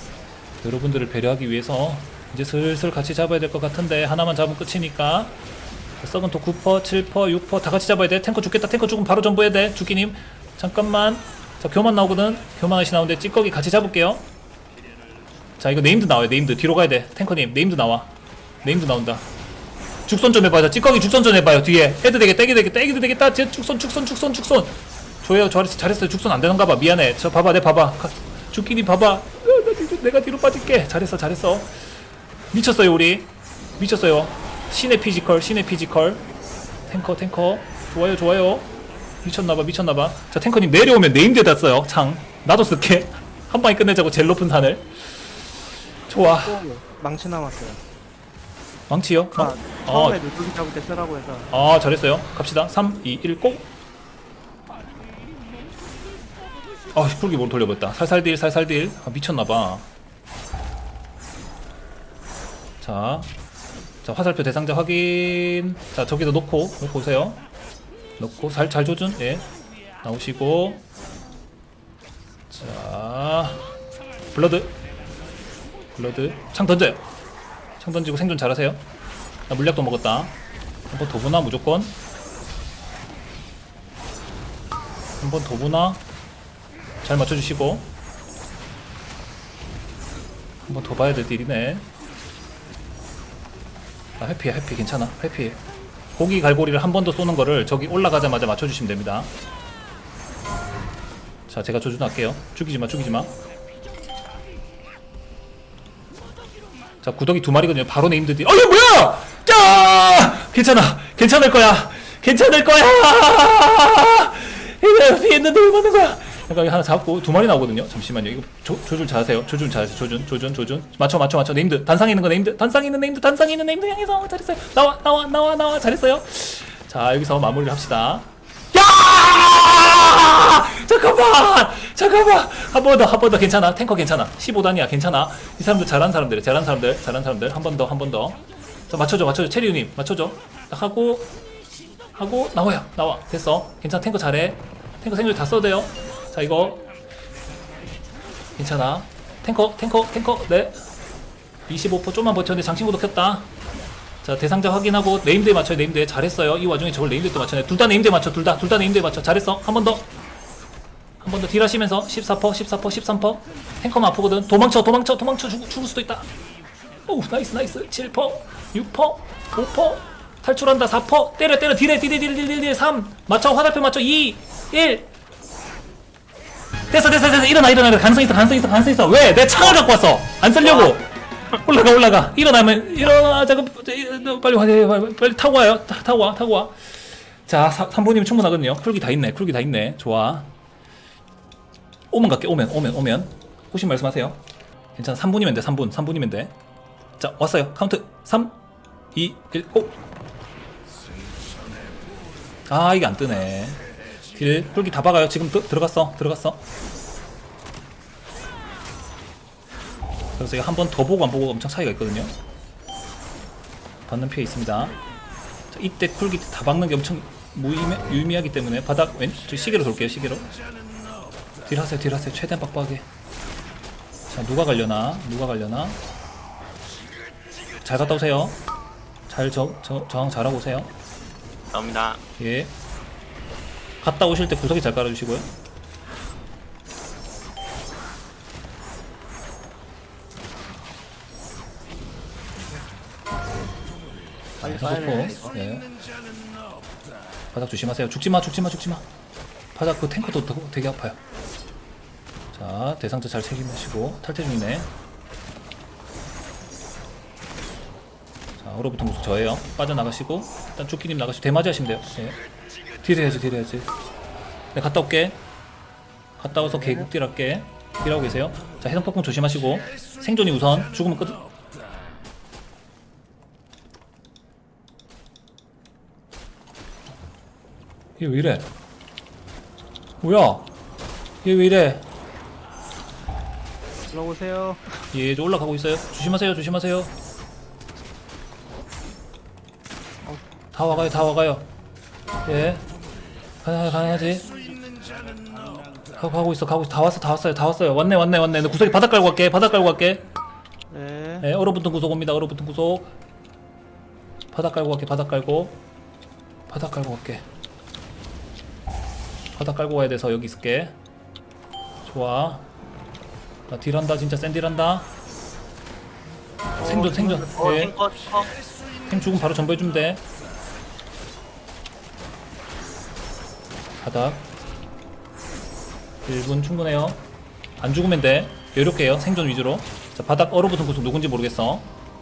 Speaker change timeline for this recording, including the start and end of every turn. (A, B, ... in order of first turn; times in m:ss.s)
0:00.6-0:05.4 A
0:06.0-0:14.2 A
0:15.6-0:19.2 A
0:20.1-0:31.9 A
0:32.5-0:36.3 A
0:36.9-0:45.2 A
0:46.1-0:46.6 A
0:46.2-0:47.8 B
0:48.9-0:50.2 A
0:49.3-0:51.5 B
0:51.5-0:53.7 A
0:56.9-0:59.9 A
1:02.8-1:03.3 A
1:04.0-1:07.4 A
1:08.2-1:09.5 A
1:10.0-1:10.8 A
1:12.5-1:13.7 A
1:14.3-1:14.8 A
1:15.9-1:17.1 A
1:17.8-1:18.8 A
1:19.5-1:22.0 A
1:25.2-1:26.0 A
1:27.0-1:27.9 A
1:30.7-1:31.9 A
1:34.2-1:35.6 A
1:36.1-1:39.3 A
1:41.5-1:43.4 A
1:47.0-2:21.3 A
2:22.1-2:26.8 A
2:28.5-2:30.9 A
2:31.7-2:33.5 A
2:34.2-2:40.1 A
2:41.2-2:46.3 A
2:47.1-2:55.1 A
2:56.9-3:10.5 A
3:00.6-3:00.9 C
3:12.1-3:14.4 A
3:14.9-3:16.5 A
3:17.2-3:18.6 A
3:19.1-3:20.0 A
3:22.7-3:26.6 A
3:30.4-3:32.3 A
3:34.1-3:35.0 A
3:35.7-3:40.5 A
3:41.6-3:43.0 A
3:44.3-3:46.0 A
3:47.8-3:48.6 A
3:49.3-3:50.9 A
3:51.7-3:52.2 C
3:52.4-3:52.7 A
3:54.0-3:55.5 A
4:04.6-4:05.9 A
4:04.6-4:05.6 B
4:07.5-4:09.0 A
4:09.7-4:11.2 A
4:12.5-4:14.9 A
4:18.6-4:22.4 A
4:23.0-4:23.9 A
4:24.7-4:25.4 A
4:26.4-4:31.4 A
4:38.2-4:38.7 A
4:40.2-4:40.7 A
4:41.4-4:42.0 A
4:44.1-4:45.0 B
4:45.1-4:47.1 A
4:50.2-4:51.1 B
4:50.7-4:51.7 A
4:52.4-4:52.9 A
4:53.6-4:54.5 A
4:55.4-4:55.8 B
4:56.1-5:00.2 A
5:00.9-5:01.5 B
5:01.4-5:03.1 A
5:04.5-5:05.8 A
5:06.7-5:07.4 A
5:09.5-5:11.0 A
5:12.0-5:12.7 A
5:13.7-5:15.1 A
5:16.8-5:18.0 A
5:16.8-5:18.5 C
5:19.0-5:20.2 A
5:24.0-5:24.5 A
5:26.2-5:27.2 A
5:27.8-5:31.9 A